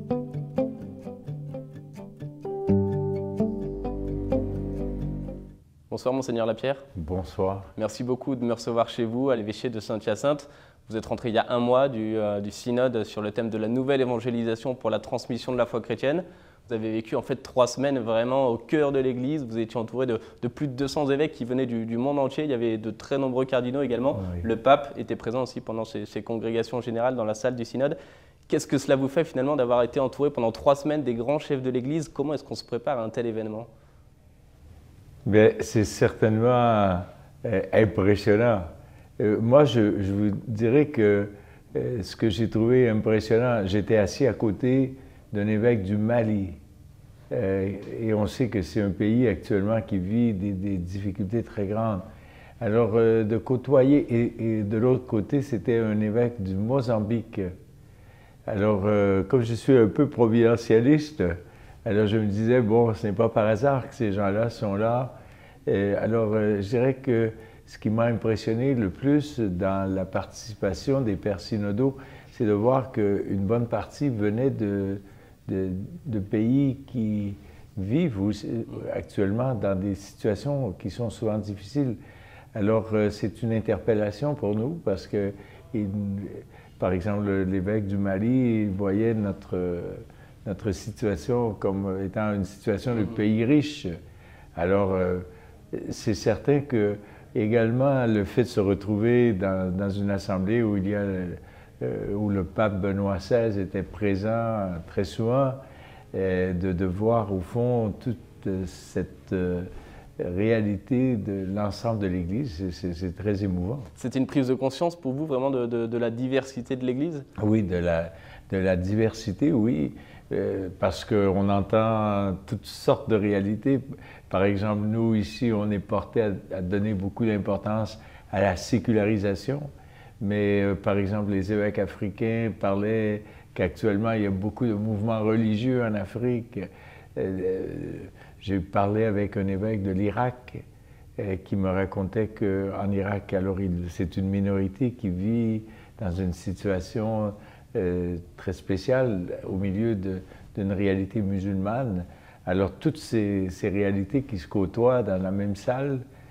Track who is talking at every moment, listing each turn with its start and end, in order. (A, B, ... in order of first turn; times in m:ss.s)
0:05.9-0:06.8 A
0:06.9-0:07.7 B
0:07.8-0:27.9 A
0:24.2-0:24.4 B
0:28.5-0:33.7 A
0:35.2-0:46.6 B
0:47.3-0:52.0 B
0:52.6-0:57.5 B
0:58.5-1:05.1 B
1:05.6-1:22.0 B
1:22.5-1:33.9 B
1:34.5-1:45.6 B
1:46.1-1:53.9 B
1:54.0-1:57.2 A
1:57.4-2:09.7 B
2:10.2-2:20.6 B
2:21.2-2:36.0 B